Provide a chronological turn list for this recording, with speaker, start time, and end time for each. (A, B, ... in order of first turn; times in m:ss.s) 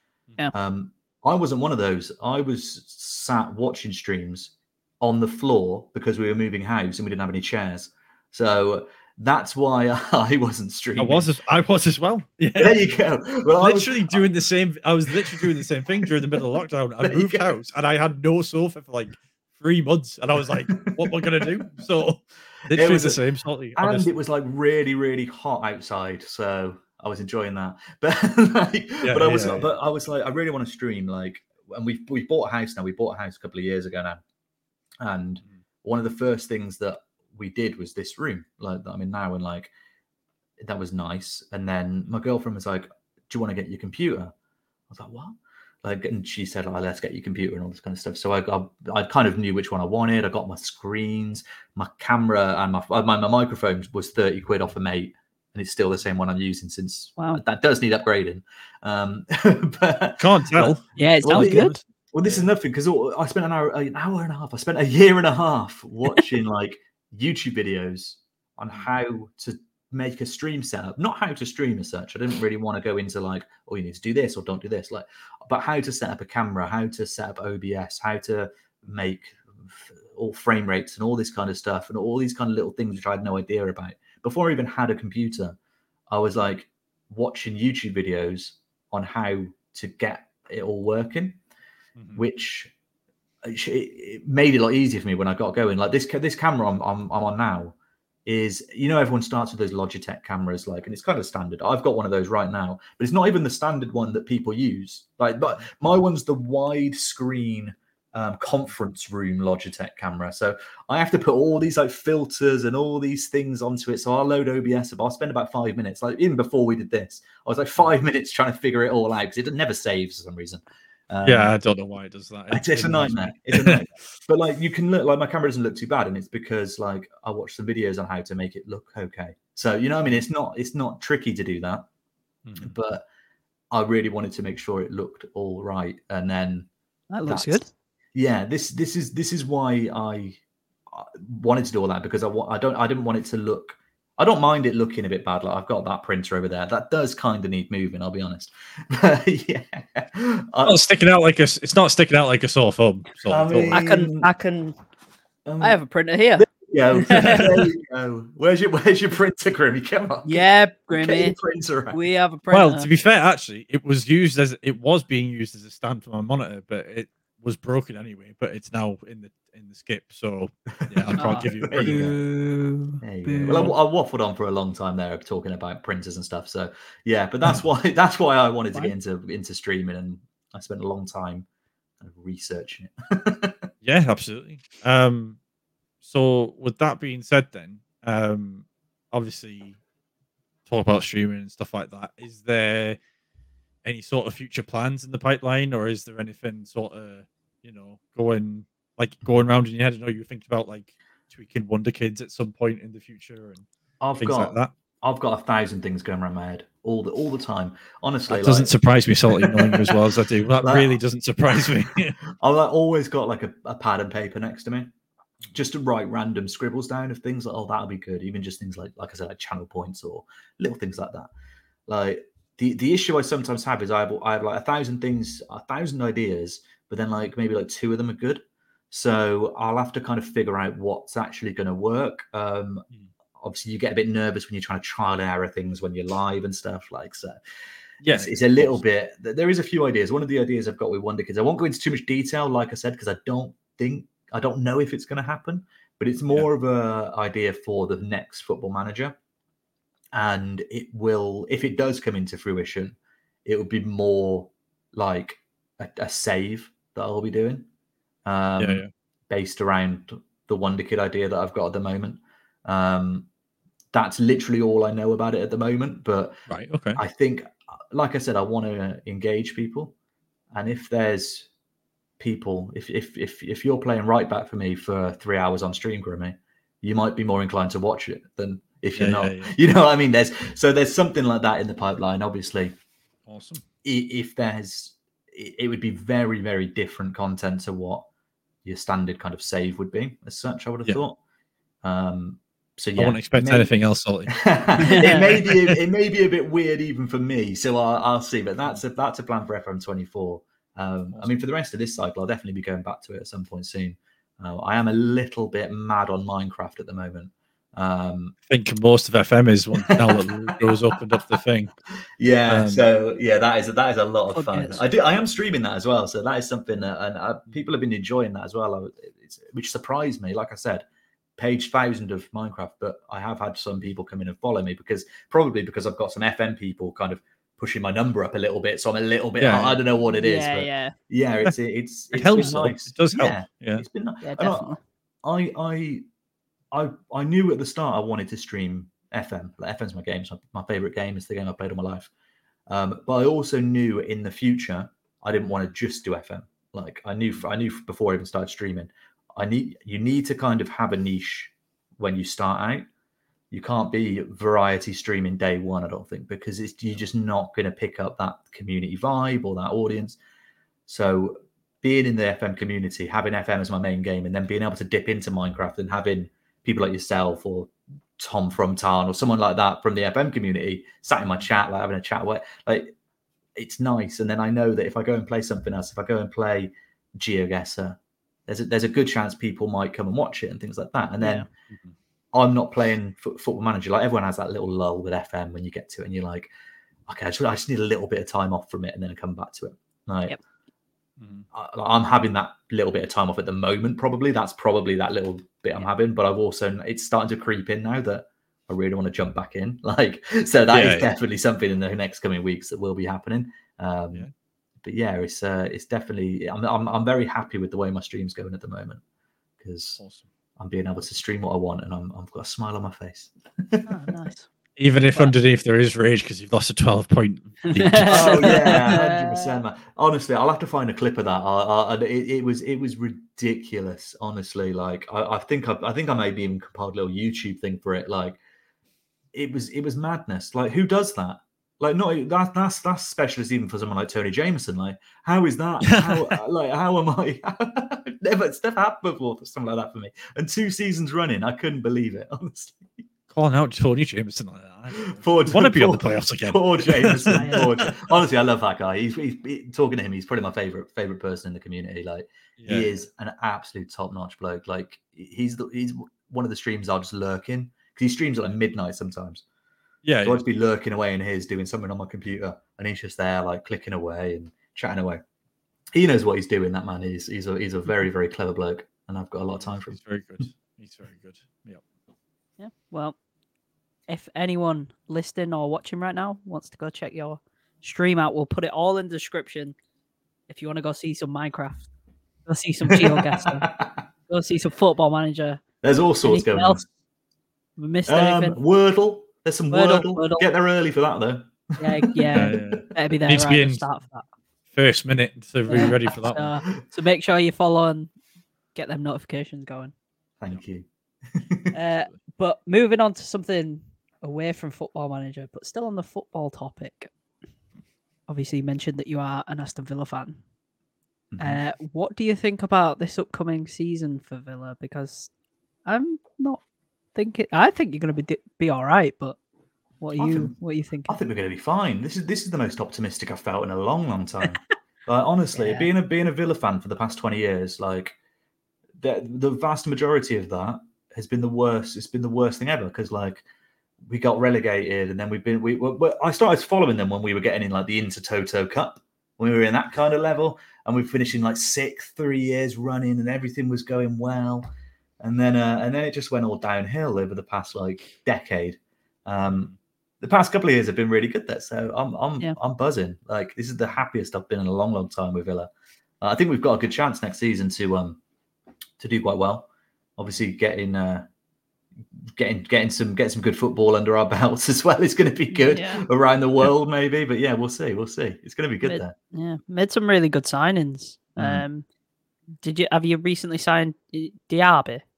0:00.5-0:11.3 A
0:11.0-0:12.8 B
0:12.6-0:14.3 A
0:13.6-0:24.1 B
0:15.1-0:16.4 A
0:17.0-0:17.5 A
0:20.7-0:21.6 A
0:22.7-0:23.2 A
0:23.8-0:34.2 A
0:29.0-0:29.7 B
0:35.0-0:39.7 A
0:40.6-0:44.3 A
0:44.9-1:25.6 A
1:00.2-1:02.5 B
1:01.0-1:01.7 C
1:26.1-1:31.4 A
1:32.0-1:32.2 B
1:32.2-1:32.7 A
1:33.4-1:37.7 A
1:38.2-2:01.5 A
2:01.2-2:03.8 B
2:02.5-2:11.8 A
2:12.4-2:12.8 B
2:12.6-2:13.0 A
2:13.7-2:16.7 A
2:17.1-2:17.7 C
2:17.2-2:20.4 A
2:20.9-2:30.8 A
2:30.6-2:33.8 B
2:33.3-2:34.3 A
2:33.7-2:34.8 C
2:35.4-2:35.8 A
2:35.6-2:36.4 C
2:36.3-2:42.0 A
2:37.0-2:37.6 C
2:37.2-2:37.4 B
2:40.2-2:41.4 C
2:41.9-2:42.9 C
2:42.5-2:52.1 B
2:50.7-2:52.1 A
2:51.2-2:53.7 C
2:53.0-3:01.4 A
3:02.0-3:03.7 A
3:03.8-3:05.4 B
3:06.0-3:09.8 B
3:10.7-3:13.0 B
3:13.8-3:23.6 B
3:24.0-3:28.8 A
3:24.2-3:24.7 B
3:28.3-3:32.2 B
3:29.3-3:30.1 A
3:30.6-3:31.0 A
3:32.3-3:34.9 A
3:35.5-3:41.3 A
3:41.9-3:52.8 A
3:53.4-3:57.3 A
3:58.0-3:58.8 B
3:58.1-4:09.2 A
4:10.1-4:17.6 A
4:18.2-4:23.3 A
4:18.6-4:18.9 B
4:23.9-4:26.4 A
4:26.5-4:27.0 B
4:27.0-4:29.9 A
4:30.5-4:31.5 A
4:32.2-4:42.7 A
4:39.0-4:39.5 B
4:43.3-4:43.6 B
4:43.8-4:48.0 A
4:48.6-4:51.2 A
4:51.8-4:53.7 A
4:53.0-4:55.8 B
4:54.3-5:08.3 A
4:54.8-4:55.4 C
5:01.1-5:01.4 B
5:08.5-5:11.7 B
5:09.8-5:10.9 A
5:12.2-5:20.8 A
5:12.5-5:12.9 B
5:14.3-5:14.8 C
5:21.4-5:36.0 A
5:29.4-5:29.8 B
5:30.1-5:30.9 C
5:32.1-5:33.8 B
5:34.2-5:34.8 C
5:36.7-5:42.1 A
5:42.7-5:52.9 A
5:53.5-6:00.2 A
6:00.9-6:12.9 A
6:13.6-6:21.4 A
6:21.2-6:21.4 C
6:21.7-6:21.9 B
6:22.3-6:26.5 A
6:27.1-6:30.4 A
6:31.2-6:31.5 B
6:31.5-6:44.2 A
6:40.7-6:41.1 B
6:44.8-6:49.0 A
6:49.6-6:50.0 A
6:50.0-6:50.3 B
6:50.6-6:53.9 A
6:53.9-6:54.5 C
6:54.8-6:59.0 B
6:55.0-6:55.3 C
6:57.7-6:59.6 C
6:58.0-7:08.4 A
7:09.3-7:22.9 A
7:16.0-7:16.2 B
7:23.3-7:28.1 B
7:24.9-7:39.4 A
7:27.3-7:27.7 C
7:32.6-7:32.9 B
7:40.0-7:40.4 B
7:40.2-7:45.2 A
7:45.9-7:50.0 A
7:49.6-7:51.8 B
7:52.6-7:53.2 C
7:54.1-7:59.8 C
8:00.5-8:01.9 C
8:02.4-8:03.7 C
8:02.8-8:04.0 A
8:04.3-8:05.6 C
8:05.8-8:06.8 A
8:06.2-8:06.8 C
8:07.8-8:08.6 C
8:08.1-8:12.6 A
8:09.7-8:10.5 C
8:11.8-8:14.3 C
8:12.3-8:13.8 B
8:14.7-8:16.5 B
8:15.7-8:18.1 C
8:18.7-8:19.9 C
8:20.4-8:21.7 A
8:21.7-8:27.1 C
8:28.3-8:30.4 C
8:31.3-8:31.6 A
8:31.4-8:35.3 C
8:35.8-8:36.6 C
8:37.1-8:39.4 C
8:40.0-8:41.2 C
8:40.2-8:40.5 A
8:41.1-8:48.2 A
8:45.5-8:45.9 C
8:49.0-8:53.4 A
8:54.1-9:09.7 A
9:09.4-9:09.7 B
9:10.2-9:15.7 A
9:16.2-9:18.2 A
9:19.0-9:21.3 A
9:22.4-9:29.1 A
9:25.5-9:26.0 C
9:28.8-9:31.8 C
9:32.6-9:35.0 C